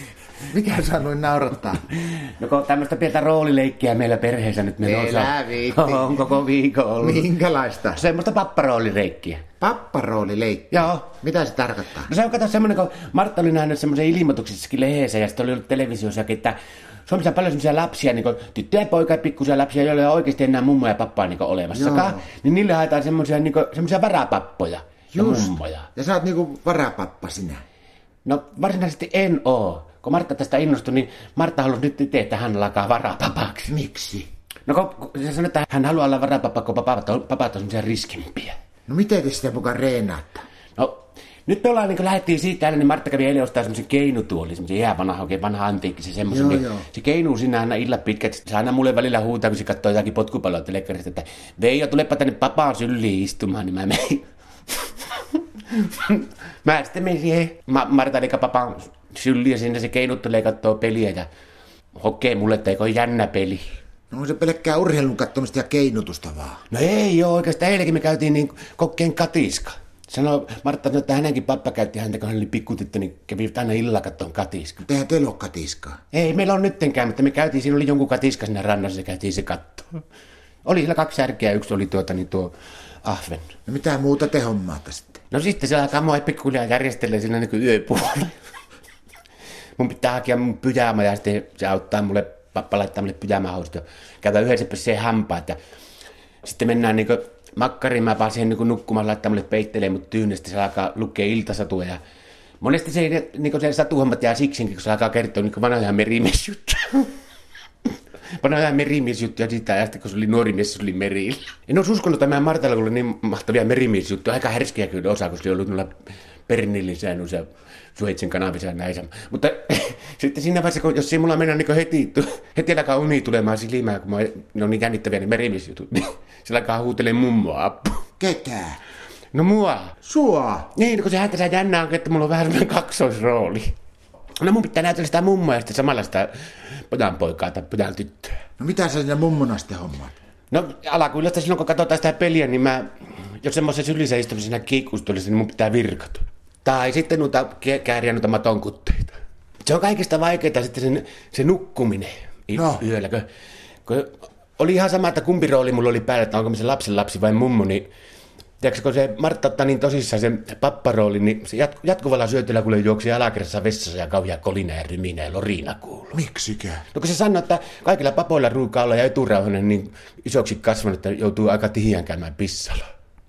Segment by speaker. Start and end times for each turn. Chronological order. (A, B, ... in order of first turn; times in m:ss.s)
0:00.5-0:01.9 A
0:01.9-0:07.3 B
0:04.8-0:06.2 A
0:07.0-0:08.0 A
0:07.9-0:09.4 B
0:09.6-0:12.1 A
0:10.7-0:11.1 B
0:12.0-0:25.9 B
0:21.7-0:22.2 A
0:25.1-0:27.6 A
0:28.2-0:33.7 B
0:33.7-0:34.3 A
0:34.7-0:38.6 B
0:38.9-0:40.4 A
0:40.8-0:54.2 B
0:46.3-0:46.8 A
0:54.9-1:01.3 B
1:01.9-1:03.6 B
1:04.1-1:06.6 A
1:06.7-1:14.8 B
1:14.8-1:16.0 A
1:16.1-1:20.0 B
1:20.6-1:23.5 B
1:23.7-1:25.2 A
1:25.3-1:28.4 B
1:29.8-1:35.6 B
1:36.4-1:42.0 B
1:42.6-1:47.1 B
1:48.4-1:55.9 B
1:56.5-2:08.0 B
2:08.2-2:08.8 A
2:09.3-2:10.0 B
2:10.0-2:10.7 A
2:10.7-2:13.7 B
2:14.4-2:18.4 B
2:18.6-2:20.1 A
2:20.5-2:33.3 B
2:32.5-2:32.8 A
2:33.8-2:37.9 B
2:38.6-2:46.2 B
2:46.1-2:46.8 A
2:46.9-2:52.8 B